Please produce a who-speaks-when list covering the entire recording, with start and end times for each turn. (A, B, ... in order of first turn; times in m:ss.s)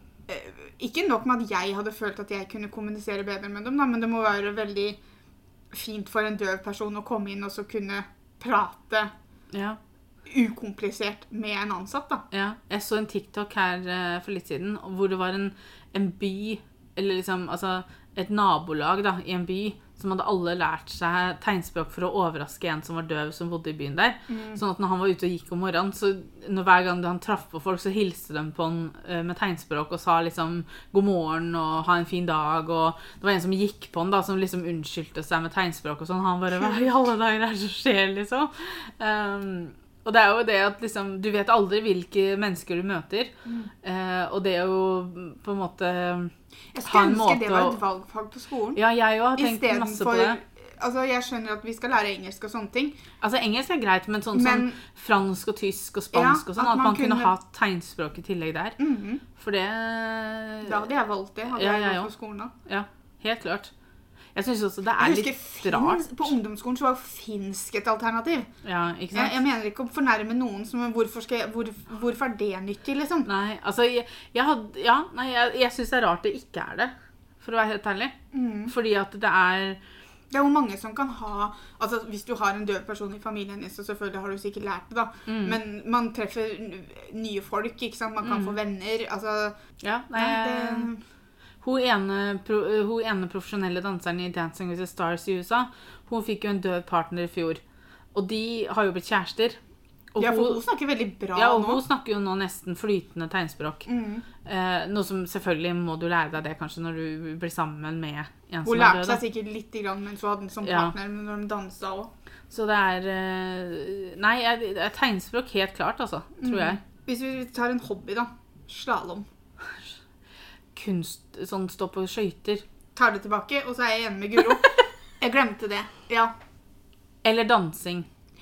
0:00.3-0:05.0 A
0:05.7-0:09.1 A
0:09.5-0:09.8 B
0:10.2-0:12.2 A
0:12.3-0:43.3 B
0:24.3-0:24.6 A
0:43.8-0:46.3 B
0:46.7-0:48.8 A
0:46.8-0:47.8 B
0:48.7-0:50.4 B
0:49.4-0:53.0 A
0:53.2-0:58.8 B
0:54.3-0:54.8 A
0:56.1-0:57.3 A
0:58.8-0:59.2 A
0:59.3-1:00.8 B
1:00.6-1:02.5 A
1:01.5-1:02.1 B
1:02.6-1:03.7 B
1:04.3-1:06.3 B
1:05.0-1:08.5 A
1:08.6-1:09.4 B
1:09.1-1:13.3 A
1:13.3-1:18.2 B
1:18.3-1:18.7 A
1:18.7-1:19.8 B
1:20.3-1:29.6 A
1:25.3-1:25.6 B
1:28.2-1:28.6 B
1:29.8-1:30.9 B
1:30.1-1:31.0 A
1:31.6-1:37.6 B
1:38.1-1:39.6 B
1:40.1-1:40.6 B
1:40.2-1:41.8 A
1:41.3-1:43.9 B
1:43.8-1:44.2 A
1:44.4-1:49.2 B
1:48.6-1:52.1 A
1:50.6-1:50.9 B
1:52.5-1:56.8 B
1:56.4-1:59.3 A
2:00.7-2:02.6 B
2:02.9-2:06.3 A
2:07.2-2:08.1 B